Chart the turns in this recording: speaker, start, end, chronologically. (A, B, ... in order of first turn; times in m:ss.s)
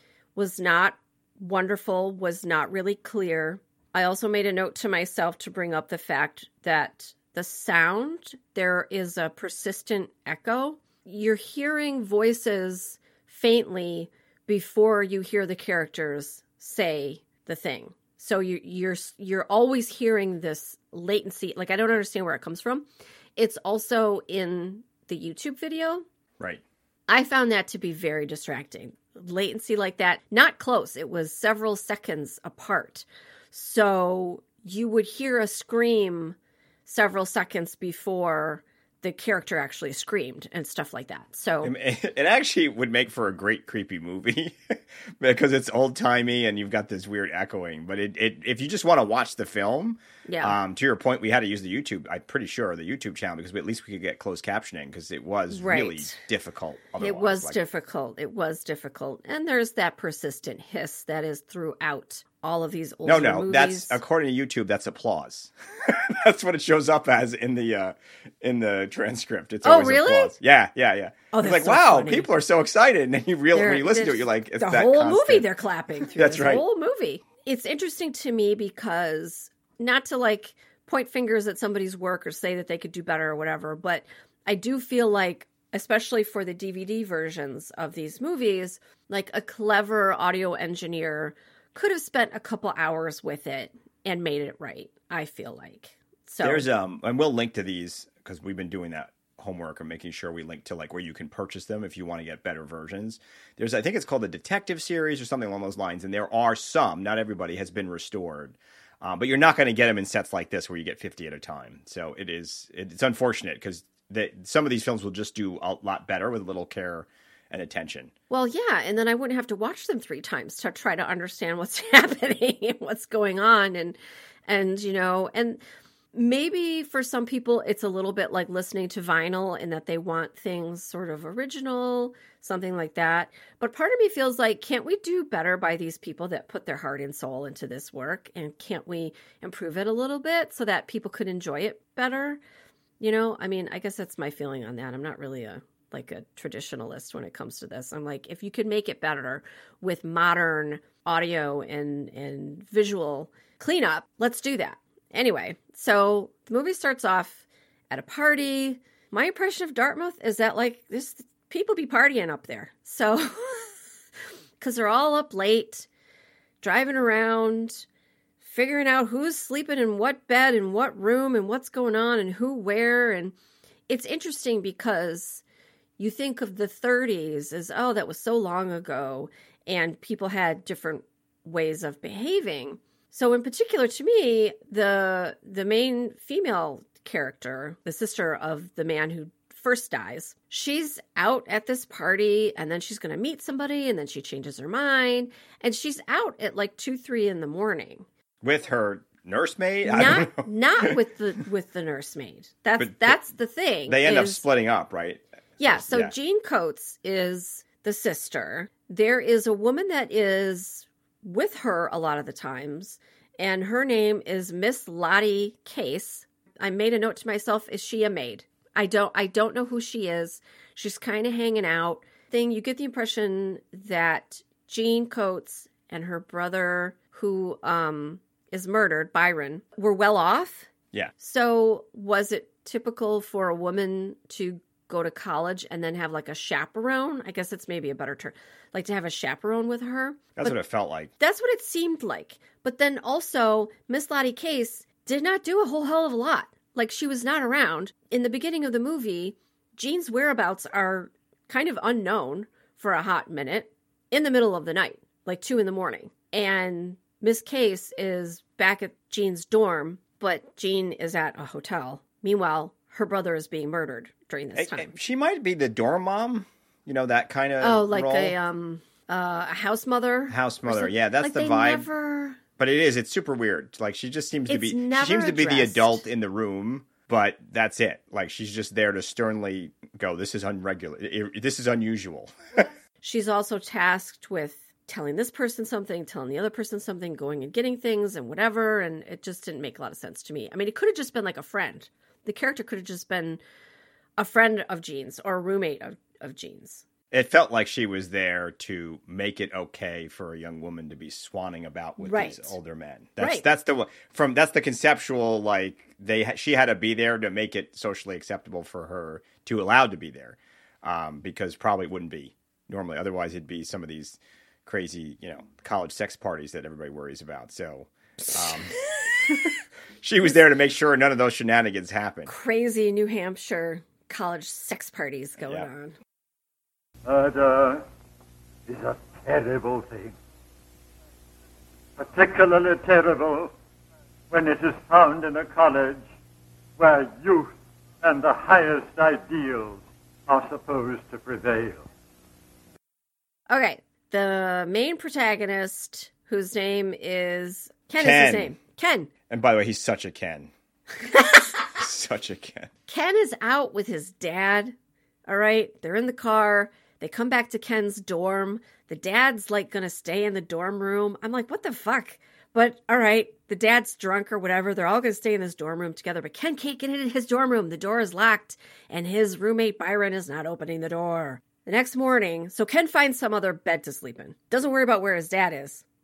0:00.4-0:26.0 A
0:27.1-0:41.7 A
0:41.6-0:57.6 B
0:50.3-0:50.6 A
0:55.5-0:56.2 A
0:57.0-1:04.0 A
1:03.1-1:15.5 B
1:09.6-1:10.3 A
1:11.3-1:12.3 A
1:13.5-1:36.7 A
1:16.1-1:16.6 B
1:36.4-1:58.1 B
1:58.3-2:05.6 A
2:06.1-2:22.4 A
2:23.0-2:43.7 A
2:44.6-2:45.9 A
2:46.6-2:47.9 A
2:48.4-2:53.3 A
2:53.9-2:55.4 A
2:56.0-3:18.1 A
3:18.4-3:21.0 B
3:19.8-3:24.4 A
3:22.8-3:23.2 B
3:23.9-3:26.1 B
3:25.6-4:00.6 A
4:00.4-4:01.1 B
4:01.2-4:24.9 A
4:24.6-4:28.4 B
4:27.6-4:32.4 A
4:30.3-4:31.9 B
4:32.6-4:42.7 B
4:34.5-4:36.0 A
4:43.0-4:53.4 A
4:54.2-4:56.8 A
4:57.1-5:18.8 B
5:02.0-5:02.6 A
5:03.2-5:03.4 A
5:18.2-5:19.4 A
5:20.0-5:22.3 B
5:22.2-5:26.0 A
5:25.4-5:25.7 B
5:27.0-5:27.8 C
5:28.7-5:30.2 C
5:32.0-5:33.5 C
5:34.3-5:36.0 C
5:36.8-5:41.9 C
5:43.5-5:49.1 A
5:48.0-5:48.6 B
5:49.3-5:50.5 B
5:51.1-5:51.5 A
5:51.8-5:52.7 B
5:52.9-5:54.7 A
5:55.3-6:15.8 A